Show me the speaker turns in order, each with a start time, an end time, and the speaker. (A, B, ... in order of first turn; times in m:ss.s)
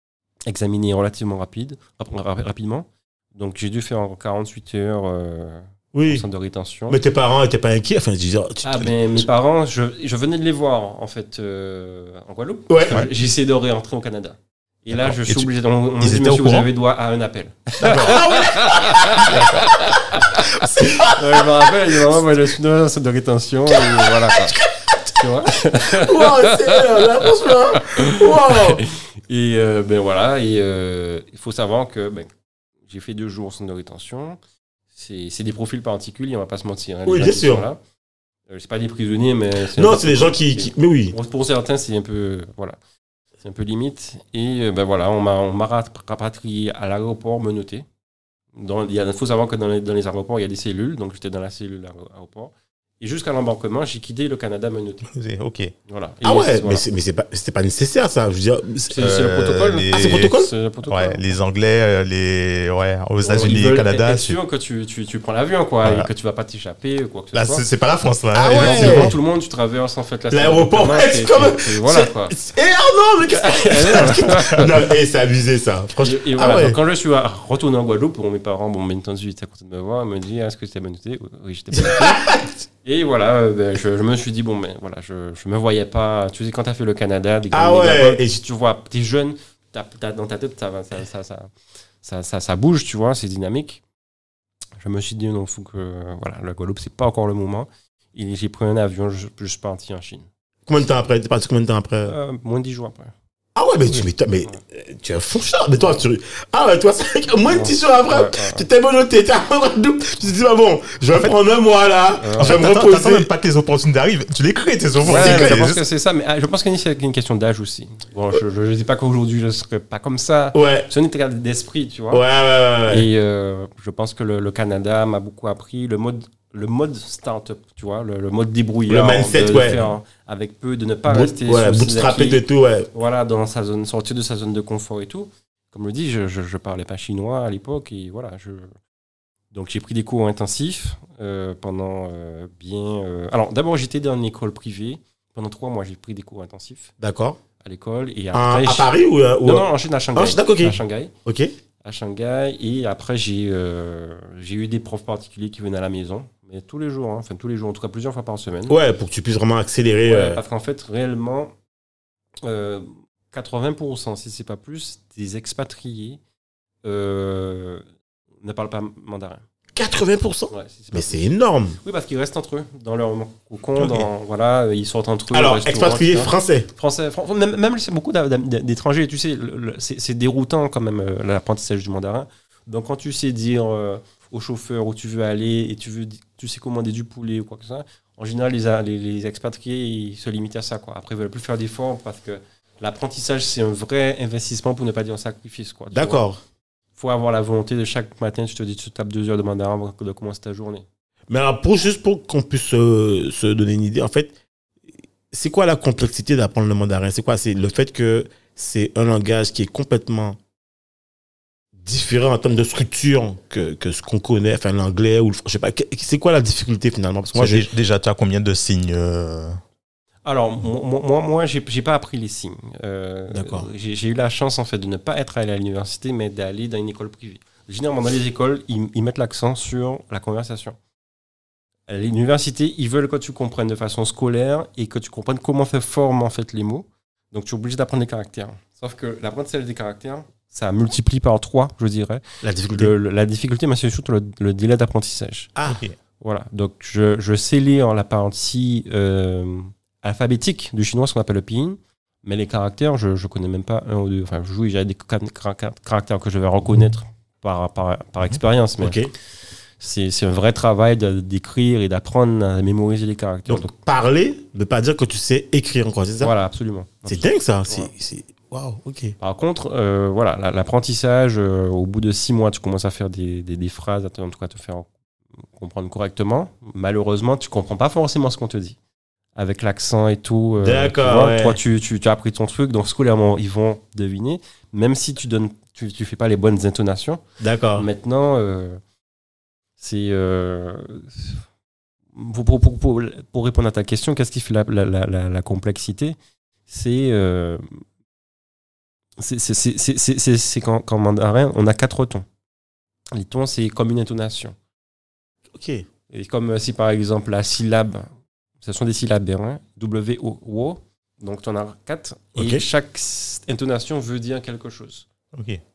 0:00.5-0:07.0 A
0:05.9-0:06.3 B
0:06.9-0:09.0 B
0:08.6-0:24.6 A
0:12.7-0:13.1 B
0:14.9-0:15.5 C
0:16.0-0:16.7 C
0:17.8-0:18.3 C
0:17.8-0:19.5 B
0:19.1-0:19.7 C
0:20.5-0:21.5 B
0:23.7-0:25.2 B
0:25.1-0:32.3 A
0:25.7-0:28.8 B
0:32.9-0:34.4 A
0:34.9-0:37.8 A
0:37.0-0:37.7 B
0:38.5-0:42.8 A
0:39.7-0:41.1 B
0:43.4-0:47.9 A
0:48.6-0:55.1 A
0:55.1-0:55.7 C
0:55.9-0:56.8 A
0:56.2-0:59.1 B
0:58.9-1:01.3 A
0:59.0-1:04.4 C
0:59.9-1:00.5 B
1:03.2-1:07.7 A
1:05.8-1:06.1 C
1:07.3-1:09.2 C
1:08.3-1:09.1 B
1:08.4-1:12.4 A
1:10.3-1:16.8 B
1:13.3-1:14.8 A
1:16.0-1:31.5 A
1:21.7-1:22.4 B
1:27.5-1:28.4 B
1:32.0-1:33.8 A
1:34.8-1:40.3 A
1:40.7-1:42.1 B
1:42.0-1:43.1 A
1:43.6-1:53.3 B
1:47.4-1:48.7 A
1:52.2-1:52.7 A
1:52.4-1:55.8 C
1:55.0-2:02.2 A
1:55.0-1:55.7 B
2:00.5-2:00.9 B
2:02.1-2:03.1 B
2:02.9-2:18.7 A
2:08.9-2:09.8 B
2:11.0-2:12.9 B
2:19.5-2:26.9 A
2:27.0-2:27.4 B
2:27.6-2:31.1 A
2:28.3-2:31.5 B
2:31.8-2:38.8 A
2:38.7-2:40.4 B
2:40.0-2:41.5 A
2:42.4-2:46.2 A
2:46.8-2:47.8 A
2:48.4-2:49.4 A
2:49.7-2:51.8 B
2:50.5-2:51.3 A
2:51.8-3:16.2 A
2:53.8-2:54.0 B
2:55.3-2:56.7 B
3:15.9-3:16.4 B
3:17.0-3:20.9 A
3:21.3-3:24.3 B
3:25.3-3:30.4 B
3:31.8-3:37.7 B
3:37.3-3:39.6 C
3:40.2-3:50.8 A
3:43.3-3:43.7 B
3:51.9-4:05.5 A
4:02.4-4:02.9 B
4:05.6-4:05.8 B
4:05.7-4:06.0 C
4:06.2-4:19.0 A
4:18.8-4:19.1 B
4:19.8-4:23.7 A
4:23.5-4:26.3 B
4:26.2-4:27.9 A
4:27.0-4:29.1 B
4:29.2-4:34.9 A
4:35.6-4:38.8 A
4:39.4-4:47.2 A
4:40.6-4:41.6 B
4:47.4-4:47.9 B
4:47.7-4:48.8 A
4:49.8-4:51.4 A
4:52.1-4:56.2 A
4:56.7-4:57.8 A
4:59.2-5:02.3 A
5:03.1-5:04.6 A
5:05.5-5:05.9 B
5:06.1-5:08.1 A
5:08.6-5:15.0 A
5:12.4-5:12.6 B
5:15.3-5:15.6 C